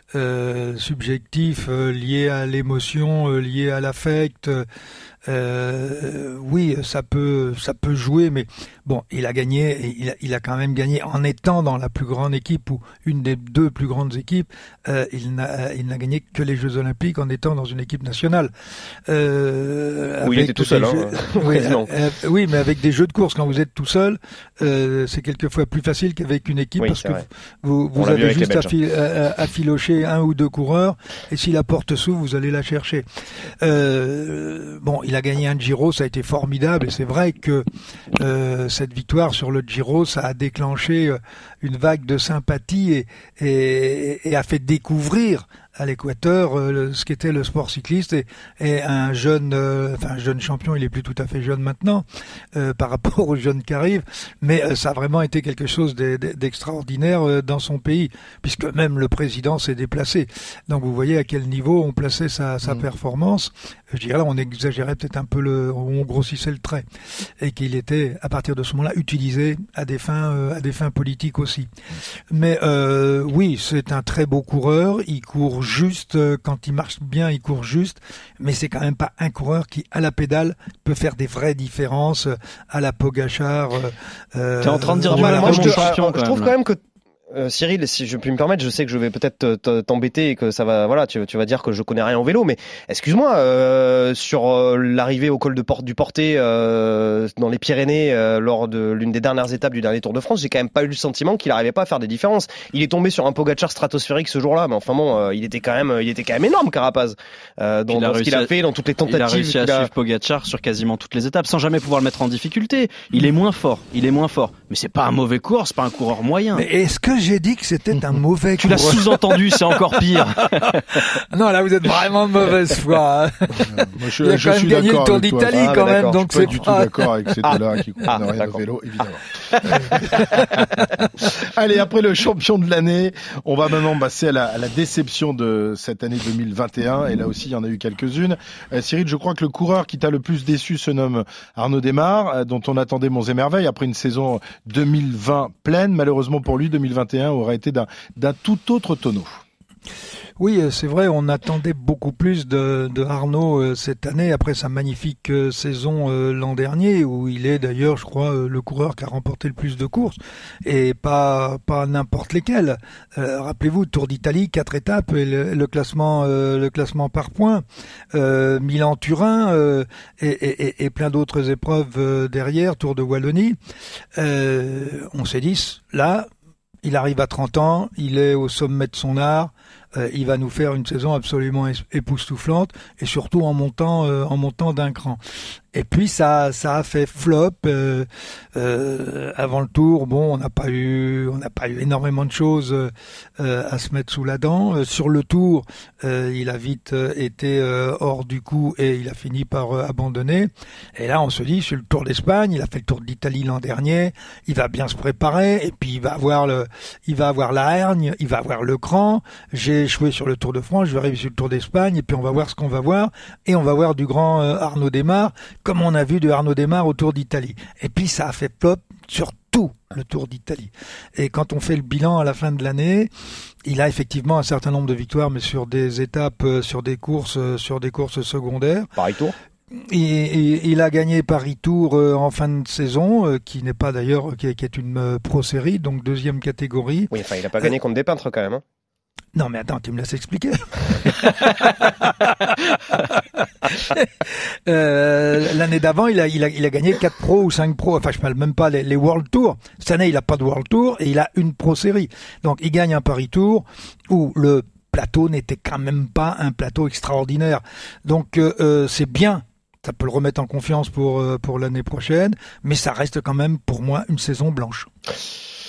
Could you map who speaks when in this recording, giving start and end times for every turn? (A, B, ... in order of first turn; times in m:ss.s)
0:00.1-0:04.7 A
0:05.3-0:18.5 A
0:19.1-0:33.0 A
0:20.2-0:21.9 B
0:26.8-0:27.3 B
0:28.0-0:28.7 B
0:33.6-0:37.6 A
0:38.2-0:52.0 A
0:52.6-1:06.8 A
1:07.4-1:11.7 A
1:12.3-1:25.9 A
1:24.6-1:26.5 C
1:25.1-1:26.8 B
1:27.3-1:49.9 B
1:47.9-1:48.5 C
1:49.1-1:56.6 C
1:56.5-2:07.6 A
1:58.6-2:01.0 C
2:03.7-2:05.8 D
2:05.5-2:06.6 B
2:06.3-2:10.5 D
2:08.1-2:08.6 B
2:09.7-2:10.5 B
2:11.2-2:29.4 D
2:30.4-2:53.6 A
2:54.2-2:56.3 A
2:56.8-3:05.2 A
3:05.7-3:43.1 A
3:43.7-3:48.9 A
3:49.0-3:49.3 B
3:49.8-3:57.1 A
3:57.1-3:58.6 B
3:59.4-4:24.9 A